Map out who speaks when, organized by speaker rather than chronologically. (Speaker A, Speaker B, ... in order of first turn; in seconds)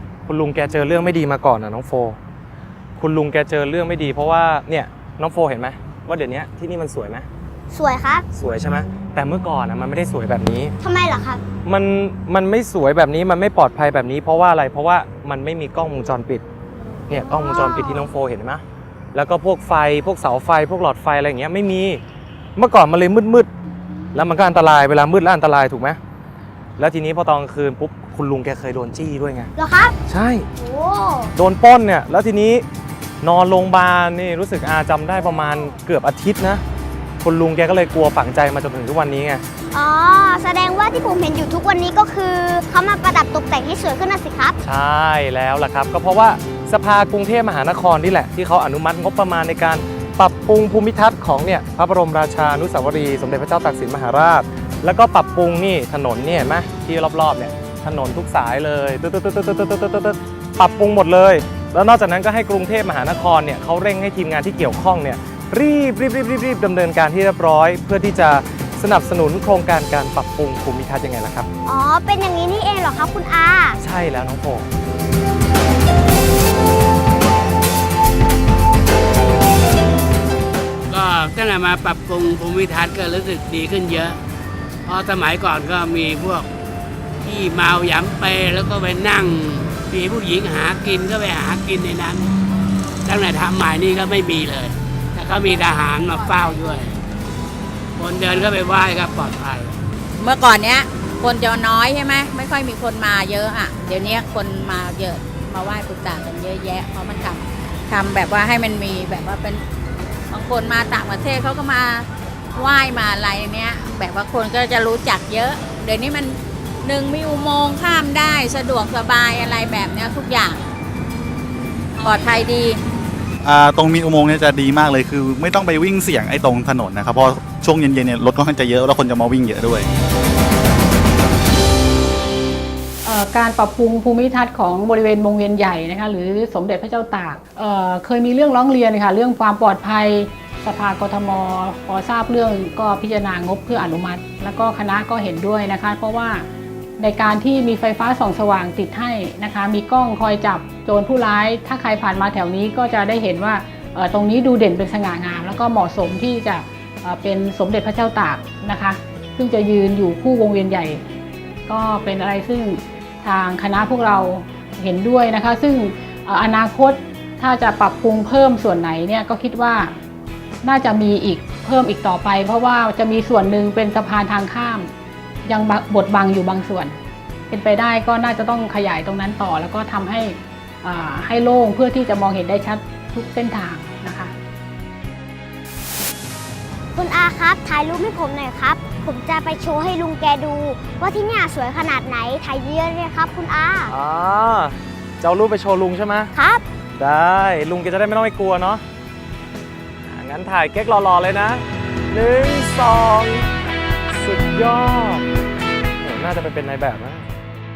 Speaker A: 0.3-2.2, 3.0-7.3, 8.3-10.7, 11.6-16.4, 17.1-22.0, 22.6-23.5, 24.1-26.0, 26.8-29.5, 30.1-30.5, 31.4-32.6, 33.2-36.6, 37.2-39.4, 44.6-71.5, 73.8-74.7, 193.9-196.3, 197.0-198.8, 200.1-203.5, 204.1-205.3, 206.0-207.3
Speaker B: 7.7-8.3, 10.8-11.4, 17.1-18.1, 29.6-30.0, 30.5-31.3, 39.7-44.6, 71.7-73.8, 186.9-193.9, 196.3-196.7
Speaker C: 80.9-84.2, 84.9-86.5, 87.2-92.3, 93.0-97.0, 98.0-99.8
Speaker D: 96.1-96.6, 100.2-109.6, 110.3-120.6, 122.0-122.8
Speaker E: 123.4-129.9
Speaker F: 133.0-146.5, 147.0-161.0, 161.7-169.9, 170.6-174.9, 175.5-176.9, 177.5-184.3